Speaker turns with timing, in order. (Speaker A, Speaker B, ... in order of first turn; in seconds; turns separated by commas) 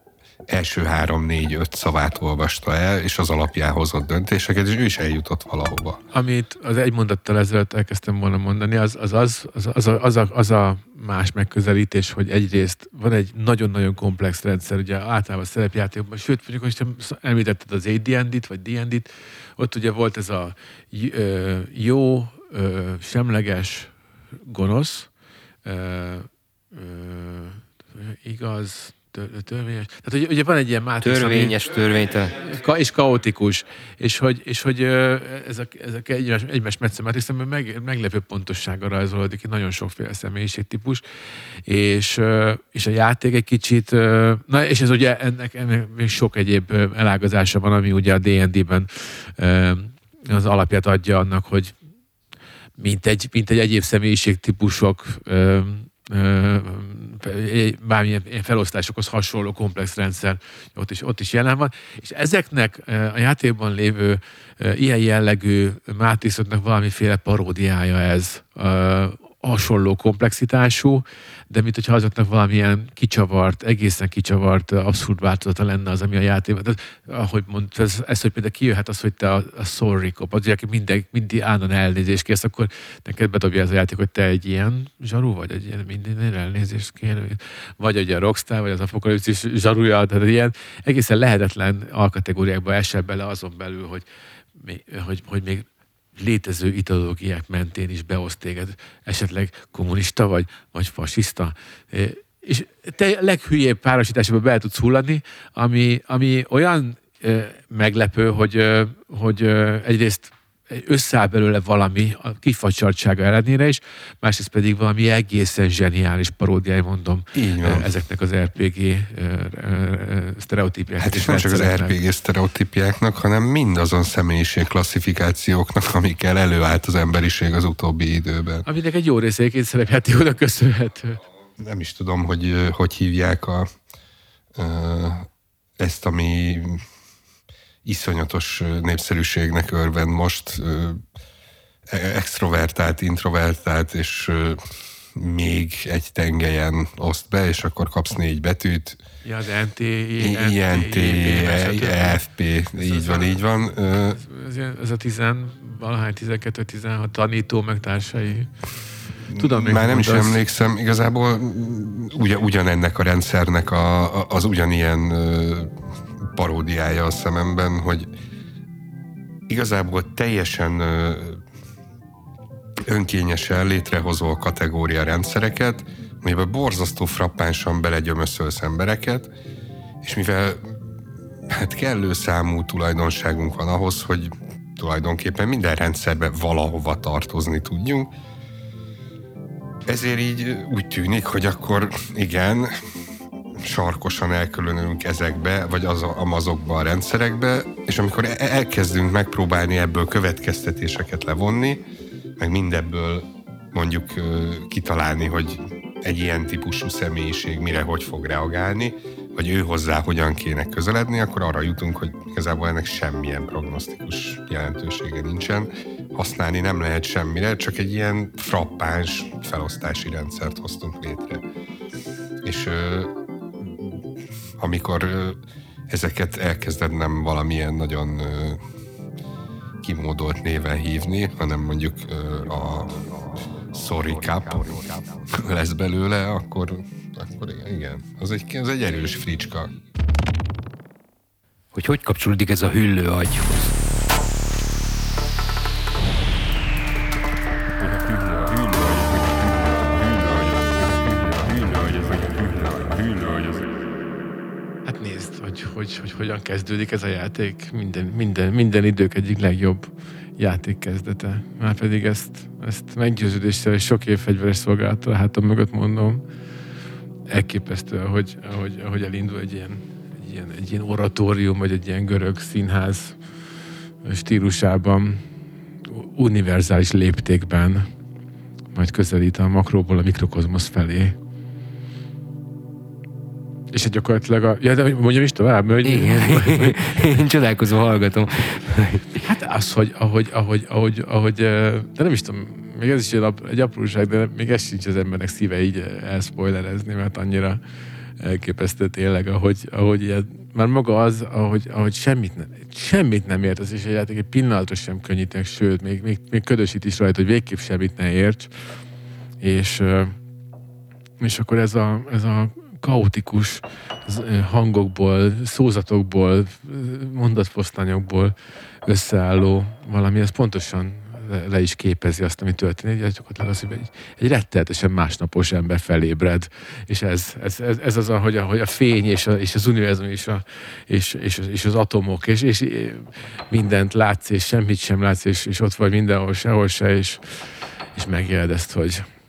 Speaker A: 0.5-6.0, Speaker B: 6.1-23.9, Speaker B: 24.5-25.1, Speaker B: 25.6-31.6, Speaker C: 31.0-32.3, Speaker B: 32.4-41.0, Speaker B: 41.7-51.7, Speaker B: 52.8-94.1, Speaker B: 94.6-122.0, Speaker A: 117.3-117.9, Speaker A: 121.0-128.7, Speaker B: 128.7-131.2, Speaker A: 131.6-133.7, Speaker A: 134.6-136.8, Speaker A: 137.8-141.0, Speaker A: 141.9-144.6, Speaker A: 145.1-149.0, Speaker B: 149.2-152.2, Speaker A: 150.2-154.2, Speaker B: 152.8-153.4, Speaker B: 154.2-158.5, Speaker A: 159.3-165.7, Speaker B: 159.3-160.4, Speaker A: 166.3-168.1, Speaker A: 169.5-171.4, Speaker A: 172.9-179.3, Speaker A: 180.0-180.9, Speaker A: 181.5-188.1, Speaker A: 189.9-192.7, Speaker A: 193.6-201.8, Speaker A: 202.4-221.4, Speaker A: 222.4-224.1, Speaker A: 224.6-225.4, Speaker A: 225.9-228.6, Speaker A: 229.8-233.0, Speaker A: 233.7-239.7, Speaker C: 241.7-243.8, Speaker B: 254.9-266.2, Speaker B: 267.3-273.2, Speaker B: 274.0-275.2, Speaker B: 275.9-277.9, Speaker B: 278.8-281.1, Speaker B: 283.7-286.8, Speaker C: 285.9-289.2, Speaker B: 289.2-297.6, Speaker B: 298.2-308.5, Speaker B: 309.4-310.2, Speaker B: 311.2-318.3, Speaker B: 318.9-339.1